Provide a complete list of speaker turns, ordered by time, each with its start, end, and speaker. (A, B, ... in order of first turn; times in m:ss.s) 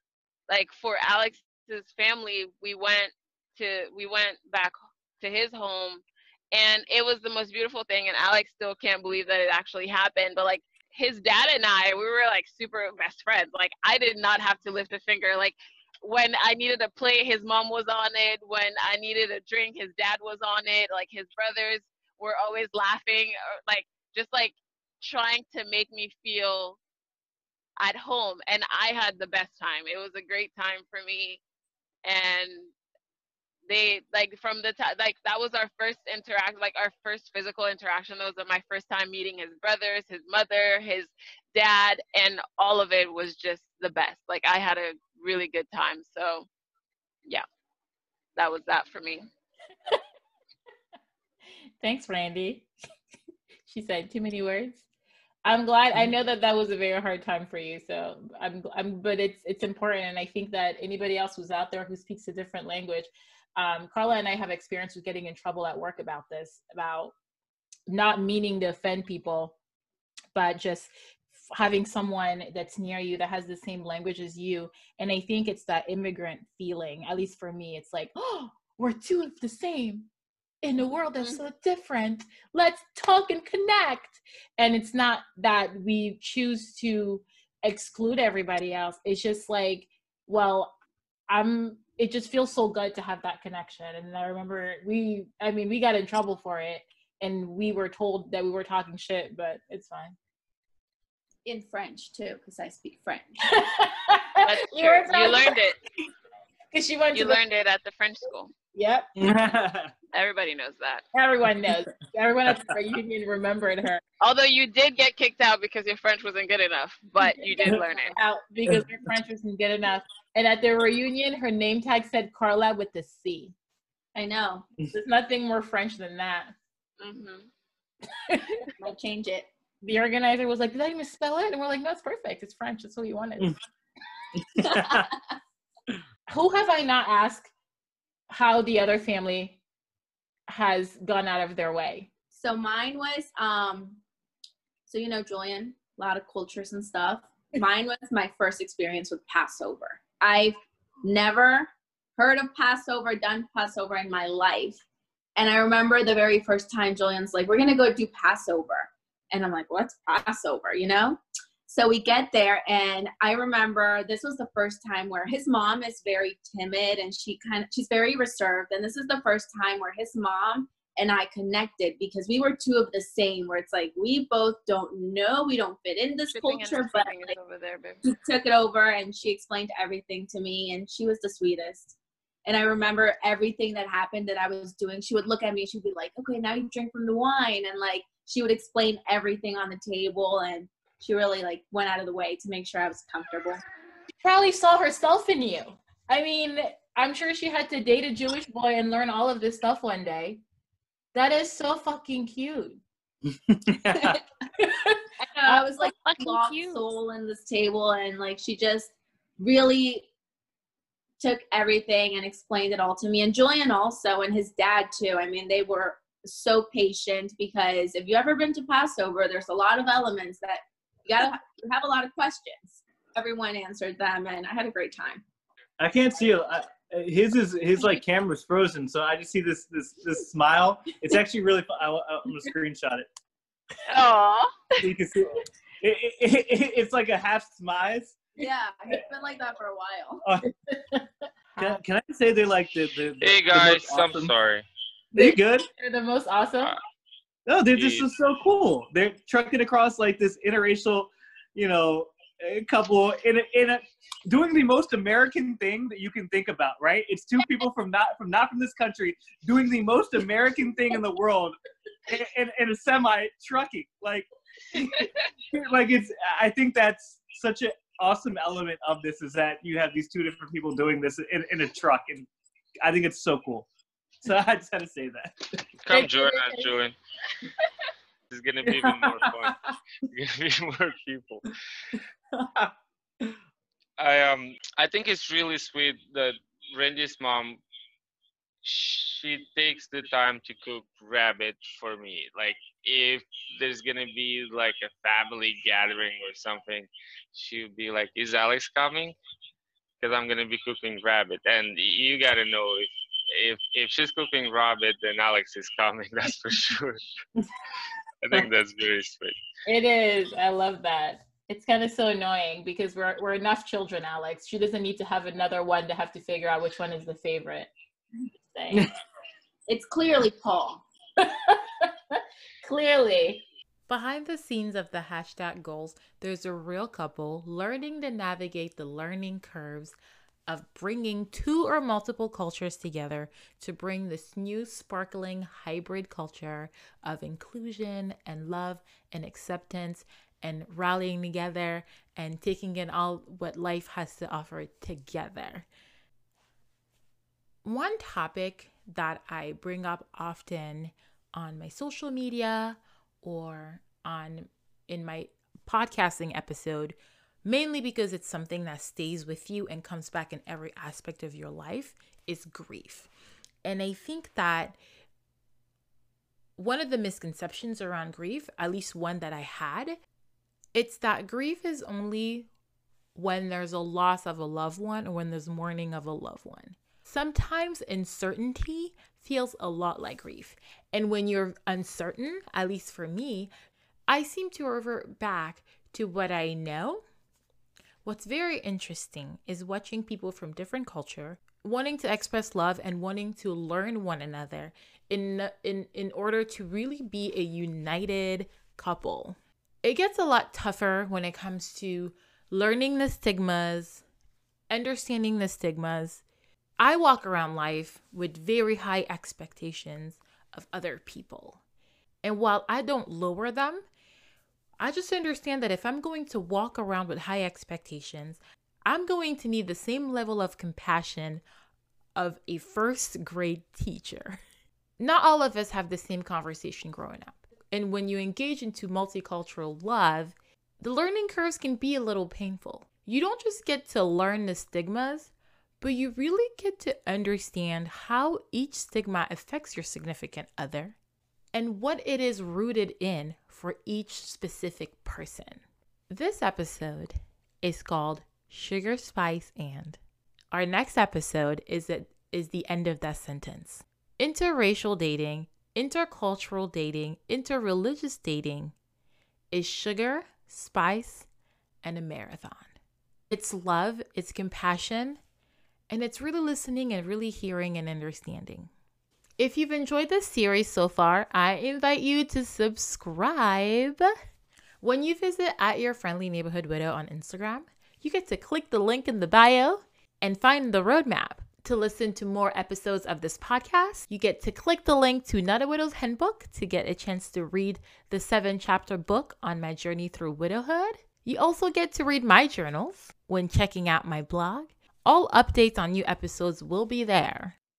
0:00.5-0:26.8 A
0:27.8-0:31.4 A
0:32.0-0:32.7 A
0:33.7-0:46.5 A
0:48.4-0:49.2 A
0:51.8-0:52.7 B
0:53.6-0:54.8 B
0:55.4-1:07.1 B
1:07.9-1:09.6 B
1:10.3-1:20.1 B
1:20.6-1:30.7 B
1:31.3-1:40.2 B
1:41.4-1:43.4 C
1:43.4-1:45.5 B
1:44.4-1:45.8 A
1:46.7-1:47.4 B
1:47.1-1:48.5 A
1:48.7-1:49.1 B
1:49.2-1:49.9 D
1:50.1-1:51.0 A
1:51.1-1:54.0 B
1:54.2-1:58.2 A
1:57.7-2:03.5 B
2:04.1-2:04.7 C
2:04.9-2:06.5 B
2:07.1-2:07.4 C
2:08.3-2:08.6 B
2:08.8-2:09.5 C
2:09.8-2:13.5 B
2:14.4-2:15.1 D
2:14.6-2:15.2 C
2:16.3-2:17.5 B
2:18.3-2:19.6 B
2:20.5-2:22.1 B
2:22.3-2:24.0 C
2:24.9-2:34.8 C
2:35.4-2:57.3 C
2:56.3-2:58.0 A
2:58.0-3:01.9 C
3:02.4-3:13.6 C
3:14.2-3:20.4 B
3:21.1-3:22.8 B
3:23.5-3:24.2 D
3:23.9-3:24.2 C
3:24.6-3:24.9 B
3:25.2-3:30.1 C
3:25.5-3:26.9 A
3:31.2-3:45.2 C
3:45.8-3:53.1 D
3:53.9-3:54.5 A
3:54.8-3:58.2 D
3:58.4-4:00.2 C
4:00.2-4:00.5 D
4:00.7-4:01.8 B
4:01.6-4:04.3 D
4:03.2-4:04.6 E
4:05.1-4:05.6 D
4:05.1-4:06.7 B
4:07.5-4:21.5 D
4:07.7-4:08.1 E
4:22.1-4:32.3 D
4:32.8-4:33.7 D
4:34.2-4:35.6 D
4:35.8-4:36.9 E
4:35.9-4:36.7 B
4:38.3-4:39.5 E
4:38.6-4:39.5 D
4:40.1-4:41.5 E
4:44.0-4:47.6 E
4:48.6-4:59.2 E
5:00.0-5:07.0 E
5:08.2-5:09.4 E
5:09.6-5:17.7 B
5:18.5-5:18.8 B
5:19.7-5:20.8 C
5:21.2-5:30.0 B
5:30.5-5:45.7 B
5:47.6-6:03.1 B
6:03.6-6:04.8 B
6:06.6-6:10.0 B
6:10.7-6:12.5 B
6:13.1-6:23.5 B
6:24.1-6:27.0 B
6:28.0-6:44.0 B
6:44.7-6:46.2 B
6:46.8-6:51.6 B
6:52.2-6:53.8 B
6:54.8-7:01.4 B
7:02.2-7:04.4 B
7:05.0-7:21.0 B
7:21.5-7:30.0 B
7:30.5-7:38.7 B
7:39.5-7:41.3 B
7:41.8-7:42.7 B
7:43.3-7:45.2 B
7:45.9-7:48.7 B
7:49.4-7:54.1 B
7:54.8-8:17.6 B